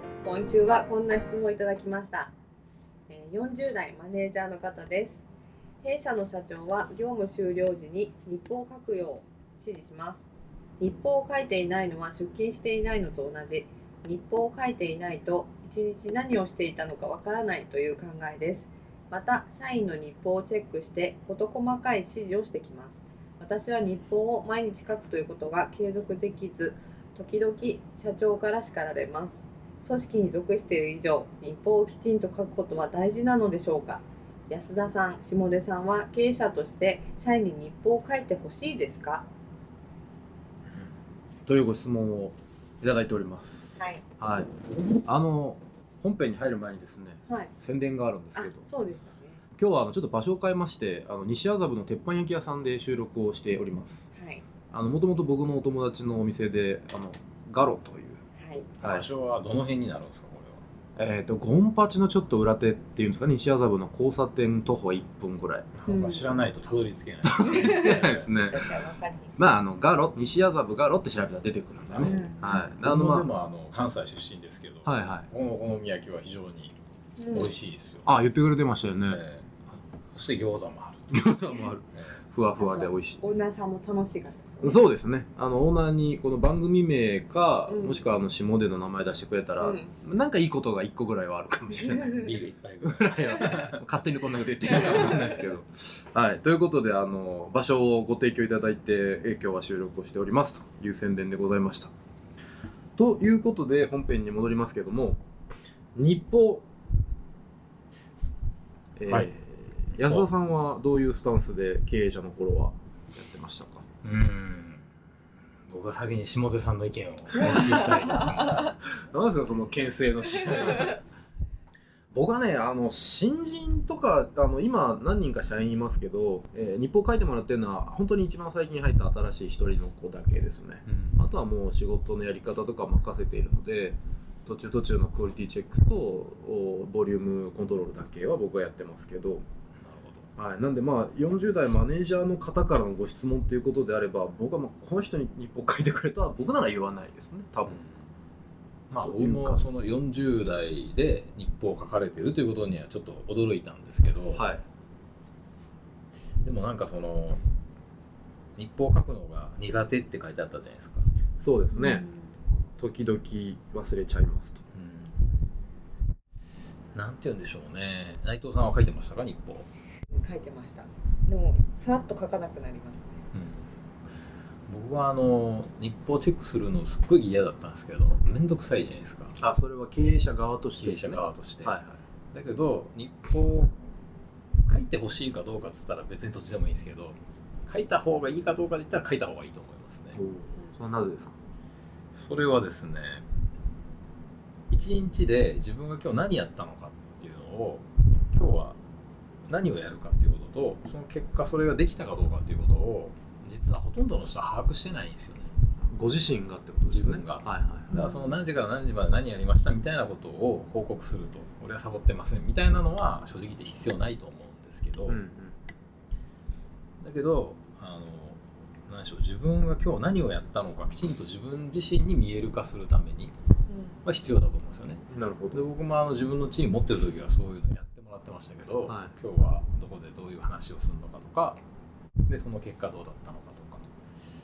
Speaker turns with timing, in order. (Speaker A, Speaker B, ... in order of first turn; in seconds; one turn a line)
Speaker A: 0.2-2.3
Speaker A: 3.1-5.2
Speaker A: 5.8-10.2
Speaker A: 10.8-39.3
Speaker B: 41.5-44.5
Speaker B: 45.1-48.7
Speaker A: 48.4-49.4
Speaker B: 49.6-54.1
Speaker A: 54.1-54.4
Speaker B: 54.7-58.2
Speaker A: 58.4-58.7
Speaker C: 58.8-60.6
Speaker B: 58.8-59.1
Speaker B: 61.0-65.7
Speaker C: 65.7-67.9
Speaker A: 65.9-66.3
Speaker B: 67.2-68.6
Speaker A: 67.3-69.4
Speaker B: 69.4-73.3
Speaker C: 71.9-76.8
Speaker A: 72.0-72.7
Speaker B: 74.8-75.3
Speaker A: 77.2-77.5
Speaker C: 77.3-78.2
Speaker B: 78.0-79.2
Speaker C: 79.1-79.5
Speaker C: 80.1-81.2
Speaker B: 81.1-83.2
Speaker C: 81.9-82.2
Speaker A: 82.6-84.8
Speaker B: 84.6-101.9
Speaker A: 87.7-88.0
Speaker A: 89.6-89.9
Speaker A: 91.8-92.2
Speaker C: 92.0-93.8
Speaker C: 94.8-95.2
Speaker B: 103.0-105.2
Speaker B: 106.0-106.7
Speaker B: 109.0-113.8
Speaker C: 114.0-114.9
Speaker C: 115.7-118.8
Speaker B: 117.4-117.9
Speaker B: 119.1-121.0
Speaker C: 120.5-120.8
Speaker B: 122.1-139.4
Speaker C: 130.9-131.3
Speaker C: 139.8-140.3
Speaker B: 140.4-147.8
Speaker C: 147.7-148.1
Speaker C: 148.9-154.4
Speaker B: 149.0-149.8
Speaker B: 154.3-154.6
Speaker C: 156.4-157.4
Speaker C: 158.6-161.1
Speaker B: 161.4-162.1
Speaker A: 161.7-162.3
Speaker B: 162.8-164.6
Speaker C: 164.7-165.2
Speaker C: 166.9-169.7
Speaker A: 170.1-173.2
Speaker C: 173.3-173.7
Speaker C: 174.7-179.4
Speaker B: 179.4-182.0
Speaker C: 180.8-181.8
Speaker C: 182.3-183.7
Speaker C: 184.7-190.2
Speaker B: 190.1-191.3
Speaker C: 192.2-193.3
Speaker C: 194.7-198.8
Speaker C: 199.5-205.5
Speaker B: 205.8-208.1
Speaker C: 206.9-215.2
Speaker A: 207.9-208.3
Speaker B: 215.1-215.6
Speaker C: 217.0-223.3
Speaker A: 223.7-224.0
Speaker C: 224.1-231.6
Speaker B: 225.1-225.6
Speaker B: 228.9-229.1
Speaker C: 232.3-233.9